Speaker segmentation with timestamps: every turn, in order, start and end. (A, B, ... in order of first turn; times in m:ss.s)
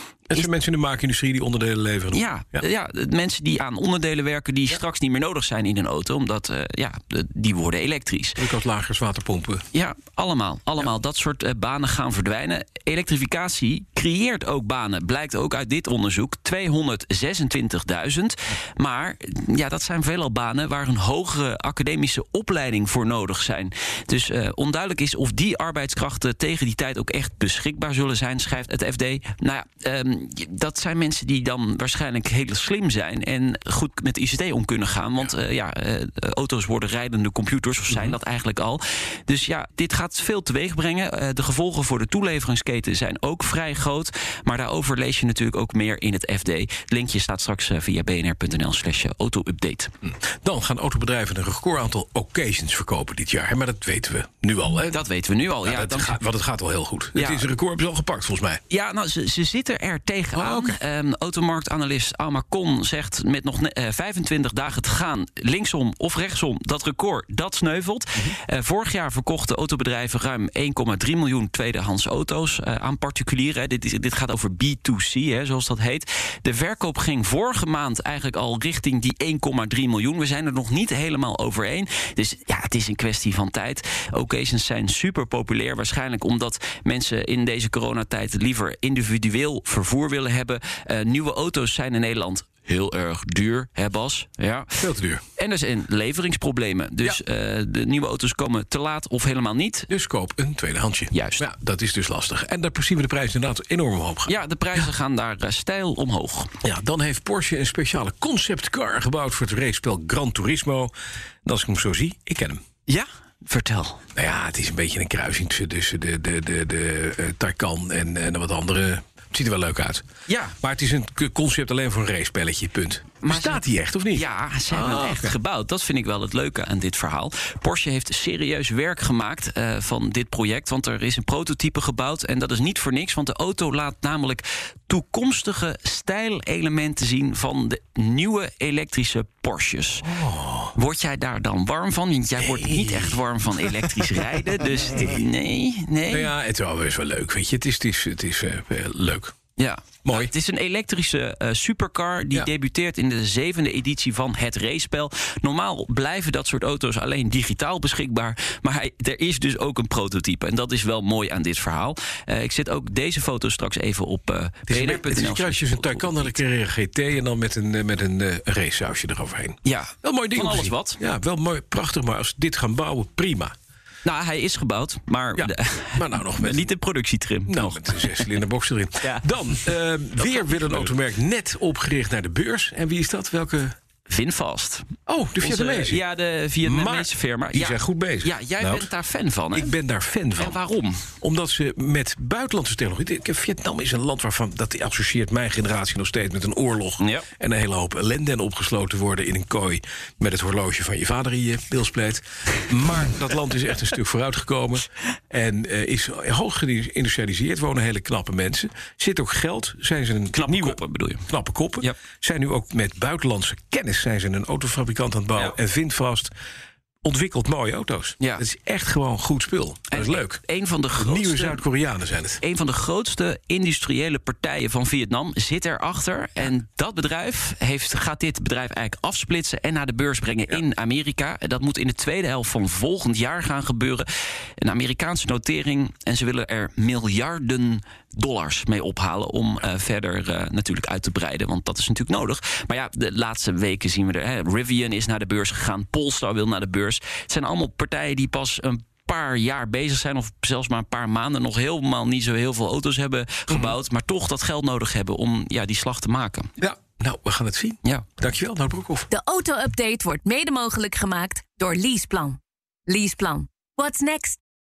0:00.3-0:02.6 A
0:02.1-0:08.4 B
0:08.4-0:09.6 A
0:09.7-0:49.9 B
0:37.9-0:38.2 A
0:50.0-0:55.0 A
0:54.9-0:56.2 B
0:55.6-0:58.6 A
0:57.1-0:57.4 B
0:58.7-1:34.8 B
1:00.3-1:00.8 A
1:34.8-1:35.2 A
1:35.4-1:39.9 B
1:39.9-1:44.9 A
1:41.1-1:41.4 B
1:44.3-1:46.5 B
1:46.6-1:50.9 A
1:51.4-1:52.6 A
1:52.9-1:54.0 B
1:54.2-2:00.0 A
2:00.3-2:00.6 B
2:00.6-2:05.4 A
2:03.2-2:20.1 B
2:20.0-2:20.8 A
2:20.8-2:26.2 B
2:22.4-2:24.1 A
2:26.1-2:29.3 A
2:29.6-2:46.4 B
2:30.0-2:30.3 A
2:44.7-2:53.5 A
2:49.6-2:51.0 B
2:54.0-2:58.3 B
2:55.4-2:56.7 A
2:57.5-3:03.8 A
3:04.1-3:04.9 B
3:05.1-3:06.0 A
3:05.4-3:09.7 B
3:06.6-3:08.9 A
3:09.5-3:10.6 A
3:10.4-3:11.1 B
3:11.2-3:36.3 A
3:17.0-3:17.3 B
3:30.3-3:32.0 B
3:37.0-3:40.4 A
3:39.9-3:41.6 B
3:41.0-3:42.4 A
3:42.4-3:54.1 B
3:54.6-4:16.5 B
4:13.5-4:13.8 A
4:16.6-4:19.1 A
4:19.1-4:24.4 C